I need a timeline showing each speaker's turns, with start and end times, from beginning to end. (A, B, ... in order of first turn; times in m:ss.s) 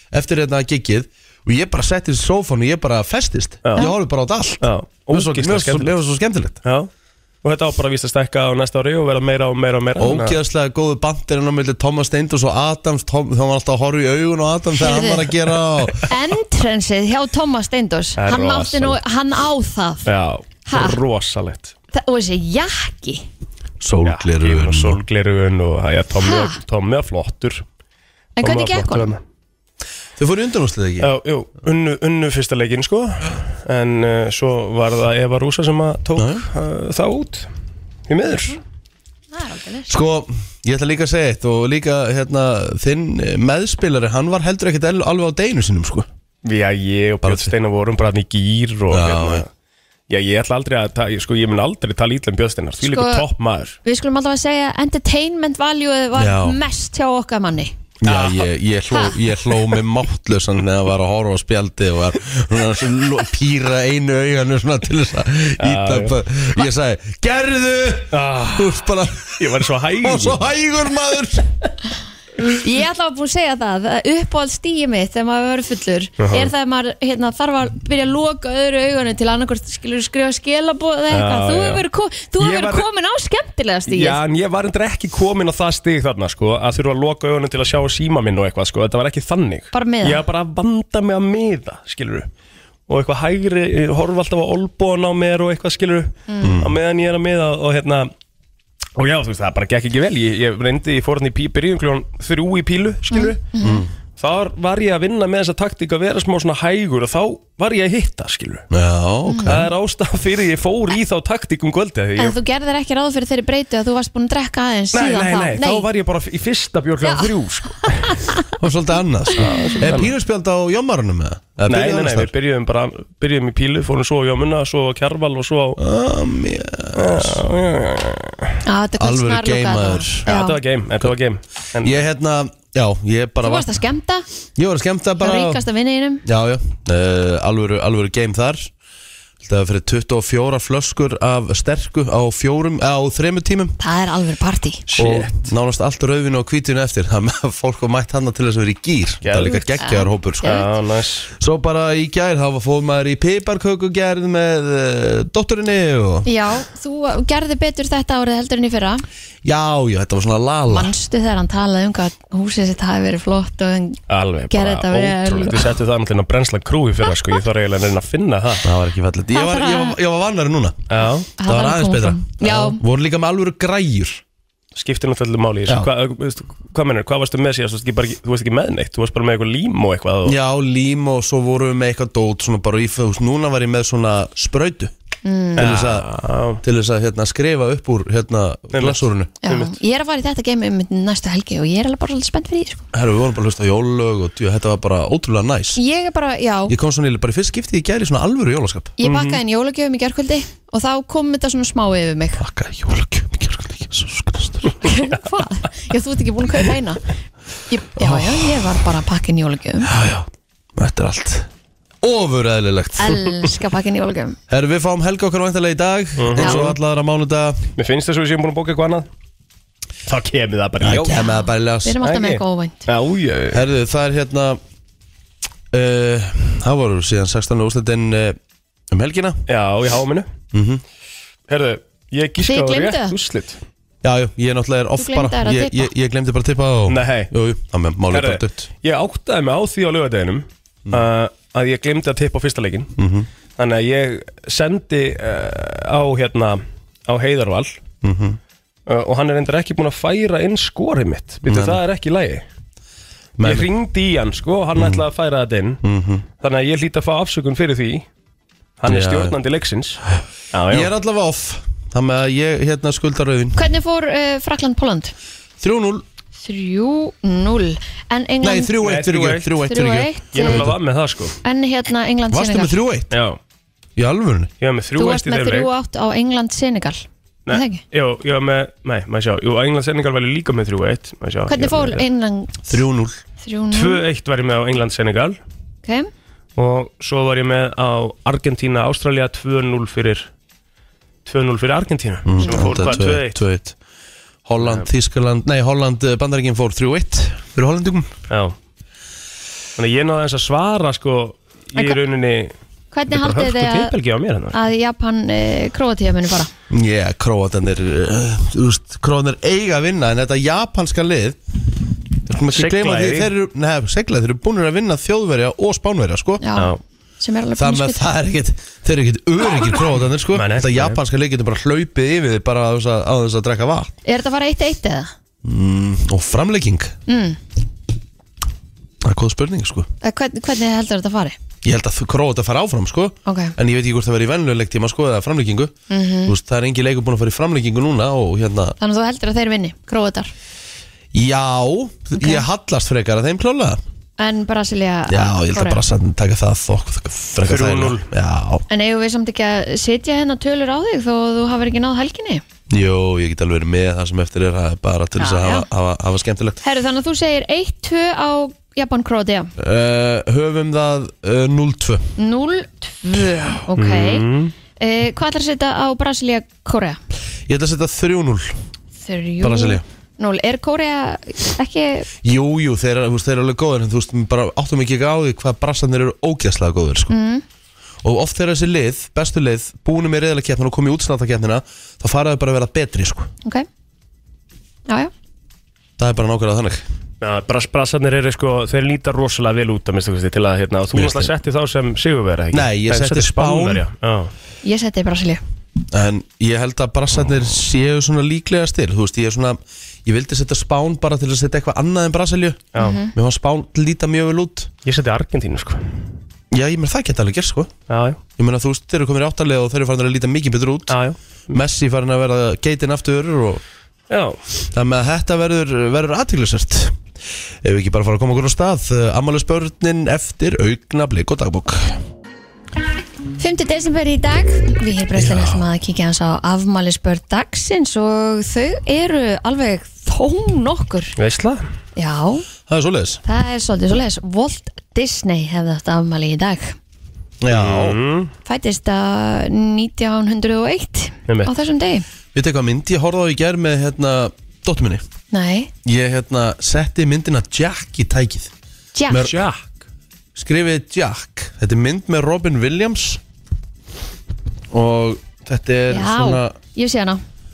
0:00.1-0:06.6 A
0:03.6-0:03.9 B
0:04.6-0:05.9 B
0:07.4-0:10.4 B
0:10.0-0:16.1 A
0:14.8-0:15.3 C
0:16.0-0:20.1 C
0:18.2-0:19.0 B
0:20.0-0:21.7 B
0:20.7-0:21.0 C
0:21.9-0:23.2 C
0:23.8-0:25.0 A
0:24.0-0:27.6 B
0:26.2-0:26.6 C
0:28.4-0:29.1 C
0:28.4-0:29.2 B
0:30.2-0:31.1 A
0:31.0-0:37.5 B
0:36.2-0:36.4 A
0:38.1-0:38.6 B
0:39.3-0:39.9 C
0:39.9-0:46.1 A
0:46.4-0:49.5 B
0:47.2-0:47.5 A
0:48.9-0:49.4 A
0:50.1-0:53.8 B
0:52.8-0:53.3 C
0:53.8-0:57.7 C
0:56.2-0:56.6 A
0:58.0-1:11.5 A
0:58.0-0:58.5 B
1:05.6-1:06.2 B
1:08.1-1:10.5 B
1:12.6-1:24.2 C
1:16.2-1:16.5 B
1:21.1-1:21.8 B
1:22.4-1:22.9 B
1:23.9-1:32.3 B
1:29.7-1:30.2 C
1:32.9-1:38.1 B
1:36.4-1:36.8 A
1:39.0-1:43.5 B
1:43.1-1:43.8 C
1:43.6-1:43.9 A
1:44.2-1:48.6 B
1:48.7-1:49.7 A
1:49.3-1:49.5 C
1:49.4-1:52.4 B
1:52.2-1:55.8 C
1:54.9-1:58.3 B
1:57.0-1:57.3 C
1:57.8-1:58.4 C
1:58.6-2:02.3 A
1:59.4-2:00.1 B
1:59.5-1:59.8 C
2:01.7-2:05.8 B
2:05.8-2:07.4 A
2:06.9-2:08.6 B
2:08.6-2:10.6 C
2:09.0-2:10.3 A
2:10.2-2:12.0 B
2:11.8-2:13.7 A
2:13.4-2:14.2 C
2:14.6-2:15.6 A
2:15.2-2:16.2 C
2:16.2-2:18.7 A
2:19.4-2:23.8 A
2:23.8-2:24.8 C
2:24.9-2:25.5 B
2:25.0-2:30.7 A
2:29.2-2:29.8 B
2:29.8-2:30.7 C
2:30.4-2:31.3 B
2:31.4-2:36.3 A
2:36.2-2:39.0 C
2:39.4-2:40.9 A
2:40.7-2:45.6 C
2:44.1-2:48.7 B
2:48.6-2:50.9 A
2:49.3-2:50.0 C
2:50.9-2:51.3 B
2:51.4-2:52.8 C
2:51.4-2:54.2 A
2:54.7-3:00.4 B
3:00.2-3:04.9 A
3:05.2-3:05.6 C
3:05.6-3:06.1 A
3:05.6-3:06.6 B
3:06.6-3:09.3 A
3:08.7-3:09.7 B
3:09.4-3:12.8 C
3:12.9-3:15.8 A
3:15.8-3:16.7 C
3:16.7-3:19.0 A
3:19.0-3:22.4 C
3:19.0-3:19.4 B
3:22.4-3:24.8 A
3:24.8-3:27.0 C
3:27.7-3:29.9 C
3:28.0-3:28.7 A
3:29.8-3:31.5 A
3:32.0-3:33.4 A
3:33.0-3:34.4 C
3:34.5-3:37.6 A
3:36.2-3:36.8 B
3:36.4-3:36.6 C
3:37.8-3:39.1 B
3:40.0-3:41.2 B
3:40.8-3:42.0 A
3:41.0-3:42.8 C
3:42.0-3:43.6 B
3:43.5-3:44.6 A
3:45.7-3:48.4 A
3:48.9-3:49.4 A
3:49.5-3:50.3 B
3:50.5-3:50.8 A
3:51.5-3:53.6 B
3:52.4-3:53.1 C
3:54.0-3:58.7 A
3:55.0-3:55.9 C
3:56.9-3:57.3 B
3:58.1-4:02.9 B
4:03.0-4:03.3 A
4:03.6-4:07.8 B
4:08.0-4:08.4 A
4:08.9-4:12.4 B
4:11.4-4:11.8 A
4:13.4-4:13.7 A
4:13.4-4:15.8 B
4:14.8-4:15.0 A
4:15.8-4:16.2 A
4:16.4-4:18.0 B
4:18.8-4:20.0 B
4:18.8-4:19.4 A
4:20.5-4:20.9 B
4:20.7-4:23.7 A
4:23.6-4:25.1 C
4:25.6-4:26.0 A
4:26.4-4:28.8 C
4:28.4-4:30.7 A
4:28.8-4:29.6 B
4:29.6-4:30.7 C
4:30.3-4:31.4 B
4:31.4-4:32.7 C
4:32.3-4:33.1 A
4:33.1-4:33.4 B
4:34.0-4:34.5 A
4:34.6-4:35.7 B
4:35.0-4:37.8 C
4:37.4-4:42.1 B
4:41.5-4:42.7 C
4:42.7-4:43.2 A
4:43.4-4:44.0 C
4:43.7-4:45.4 B
4:46.6-4:50.3 B
4:51.2-4:53.4 B
4:52.2-4:53.8 A
4:52.4-4:53.0 C
4:54.4-4:58.1 A
4:54.6-4:54.8 B
4:58.3-4:58.5 B
4:59.8-5:02.5 B
5:02.9-5:03.9 C
5:03.1-5:04.6 B
5:04.5-5:06.5 C
5:06.7-5:11.4 A
5:12.3-5:16.4 A
5:12.5-5:13.3 B
5:16.4-5:18.0 C
5:17.6-5:23.9 A
5:20.3-5:21.0 B
5:24.0-5:25.1 C
5:25.4-5:26.9 A
5:27.1-5:27.4 C
5:29.0-5:29.9 A
5:30.0-5:31.4 C
5:31.6-5:35.7 A
5:33.2-5:33.5 C
5:35.9-5:36.3 C
5:36.2-5:38.8 A
5:38.8-5:40.3 C
5:41.1-5:43.8 A
5:42.2-5:42.4 C
5:44.2-5:45.8 C
5:45.1-5:48.6 A
5:47.4-5:48.0 B
5:48.7-5:52.4 C
5:52.7-5:56.6 A
5:55.2-5:55.6 C
5:56.6-5:59.5 C
5:59.6-6:02.1 A
6:02.2-6:04.2 C
6:03.8-6:04.5 B
6:04.8-6:07.0 C
6:07.5-6:08.5 A
6:09.0-6:12.1 C
6:09.4-6:09.8 A
6:12.2-6:17.1 A
6:17.1-6:17.4 C
6:18.0-6:23.3 A
6:24.9-6:25.1 C
6:26.0-6:26.8 A
6:27.2-6:34.3 B
6:30.9-6:31.3 A
6:32.5-6:33.8 A
6:34.6-6:35.4 C
6:35.9-6:44.7 A
6:42.7-6:43.0 B
6:42.8-6:43.1 C
6:44.8-6:45.8 B
6:46.5-6:47.7 A
6:47.9-6:48.2 B
6:48.4-6:51.0 A
6:50.9-6:51.2 B
6:51.5-6:53.6 A
6:54.1-6:54.4 B
6:54.7-6:57.0 A
6:57.6-7:02.0 A
7:03.4-7:11.1 C
7:05.2-7:05.6 A
7:11.2-7:11.6 B
7:12.0-7:12.4 C
7:12.7-7:13.2 A
7:13.2-7:16.8 C
7:17.4-7:18.0 A
7:17.5-7:18.3 B
7:18.4-7:22.0 C
7:22.3-7:25.0 A
7:25.3-7:25.7 C
7:25.8-7:28.5 A
7:28.9-7:29.3 C
7:29.1-7:29.4 A
7:29.1-7:29.8 B
7:30.3-7:33.2 A
7:34.7-7:36.6 A
7:35.9-7:37.2 C